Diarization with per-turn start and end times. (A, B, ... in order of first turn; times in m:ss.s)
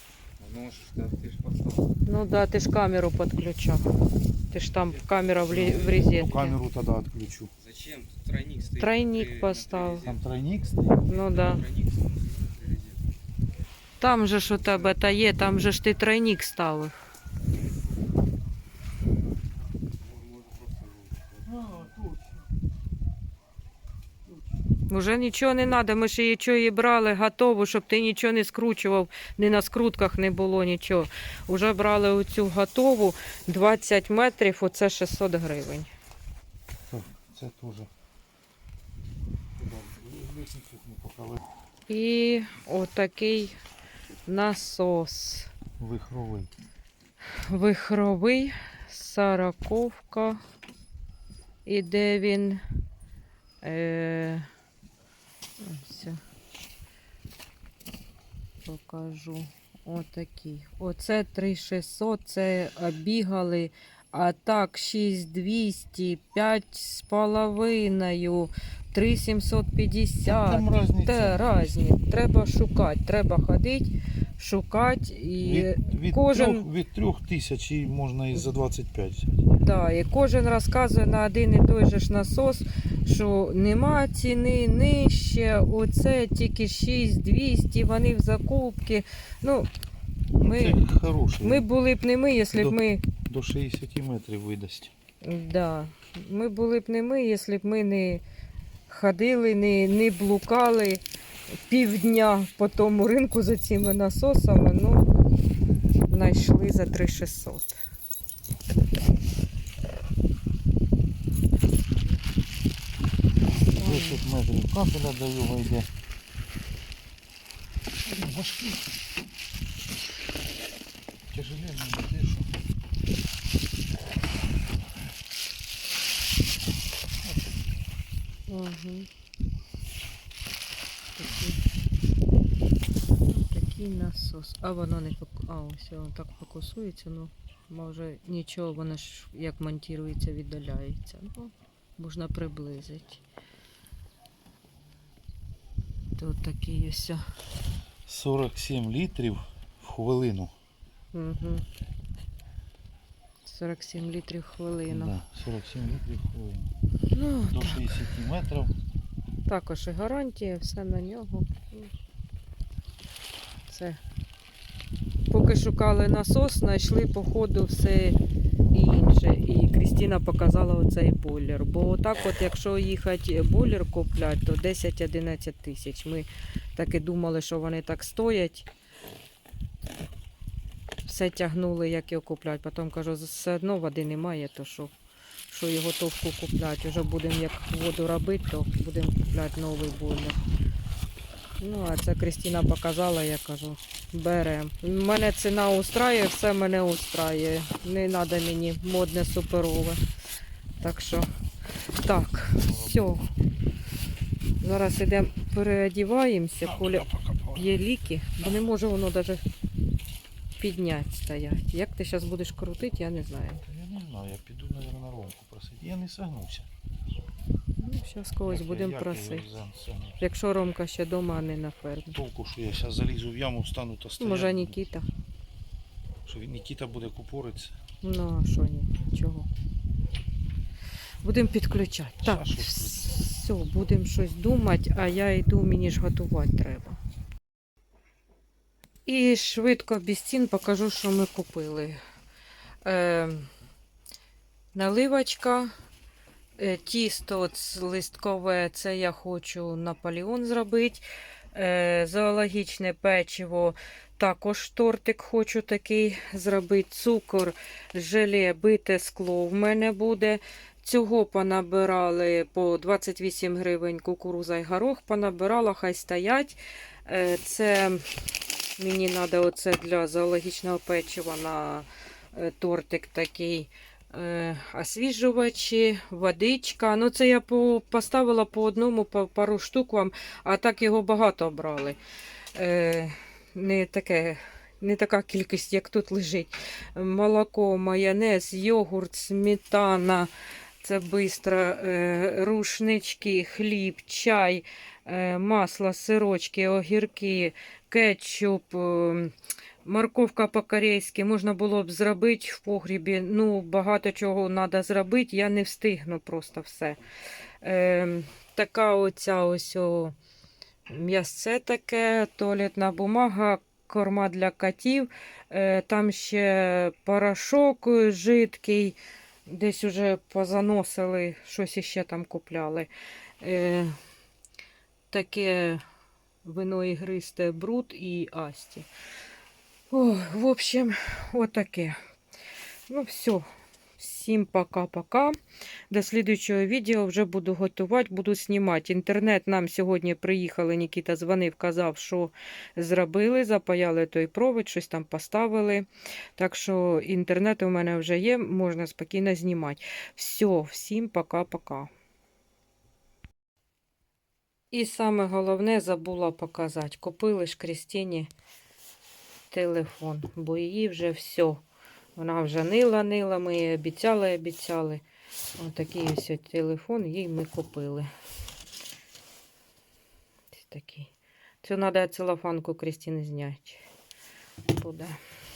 0:00.4-0:01.9 A
0:02.1-0:03.9 B
0:04.5-0:06.6 B
0:05.5-0:07.5 C
0:07.6-0:10.2 A
0:08.8-0:10.1 B
0:10.0-0:11.1 C
0:11.1-0:11.6 B
0:11.2-0:13.0 A
0:14.0-0:17.0 B
0:20.0-0:21.5 A
0:21.5-0:22.4 C
0:24.9-0:35.9 B
0:36.9-0:37.9 C
0:39.6-0:41.4 C
0:41.9-0:43.6 B
0:44.3-0:45.5 B
0:45.8-0:46.5 C
0:47.3-0:50.4 B
0:51.6-0:52.6 B
0:53.6-0:54.5 B
0:55.6-0:56.2 B
0:58.6-1:16.7 B
1:10.2-1:11.7 C
1:15.4-1:19.5 C
1:19.5-1:29.7 B
1:30.4-1:31.7 C
1:30.4-1:30.8 B
1:31.4-1:33.0 B
1:32.5-1:34.9 C
1:35.2-1:38.2 B
1:38.9-1:41.0 B
1:41.7-1:45.1 B
1:46.1-1:47.8 B
1:53.8-1:54.2 B
1:53.8-1:55.9 C
1:58.1-1:58.8 C
2:01.3-2:02.5 C
2:07.2-2:07.5 C
2:08.5-2:09.1 B
2:11.2-2:11.6 B
2:13.3-2:23.2 B
2:26.2-2:27.2 B
2:28.1-2:30.5 C
2:31.1-2:31.6 B
2:33.4-2:35.1 B
2:34.9-2:36.7 C
2:37.1-2:38.0 B
2:37.5-2:38.7 C
2:39.5-2:41.9 B
2:43.7-2:44.0 B
2:45.3-2:48.2 B
2:48.7-2:58.7 B
3:01.0-3:04.9 B
3:05.5-3:10.4 B
3:11.6-3:20.0 B
3:20.8-3:21.3 B
3:22.0-3:23.3 B
3:24.6-3:29.4 B
3:26.8-3:27.6 C
3:30.6-3:33.6 B
3:33.7-3:36.7 C
3:37.8-3:39.5 B
3:38.5-3:40.2 C
3:40.2-3:42.2 B
3:42.1-3:44.8 C
3:44.2-3:45.1 B
3:46.3-3:47.8 C
3:48.0-3:49.5 B
3:51.2-3:57.0 B
3:52.2-3:53.1 C
3:59.1-4:02.0 B
4:02.8-4:03.5 B
4:04.7-4:05.7 B
4:06.6-4:28.0 B
4:28.8-4:42.0 B
4:42.6-4:50.3 B
4:50.8-4:59.3 B
4:59.8-5:07.0 B
5:07.6-5:10.2 B
5:10.9-5:22.9 B
5:23.4-5:24.0 B
5:25.1-5:25.8 B
5:26.4-5:28.9 B
5:29.9-5:32.0 B
5:32.9-5:33.4 B
5:34.0-5:35.4 B
5:35.9-5:51.9 B
5:54.7-5:58.3 B
5:59.5-6:01.6 B
6:02.2-6:05.0 B
6:05.6-6:08.1 B
6:10.5-6:11.1 B
6:11.6-6:13.8 B
6:14.7-6:15.2 B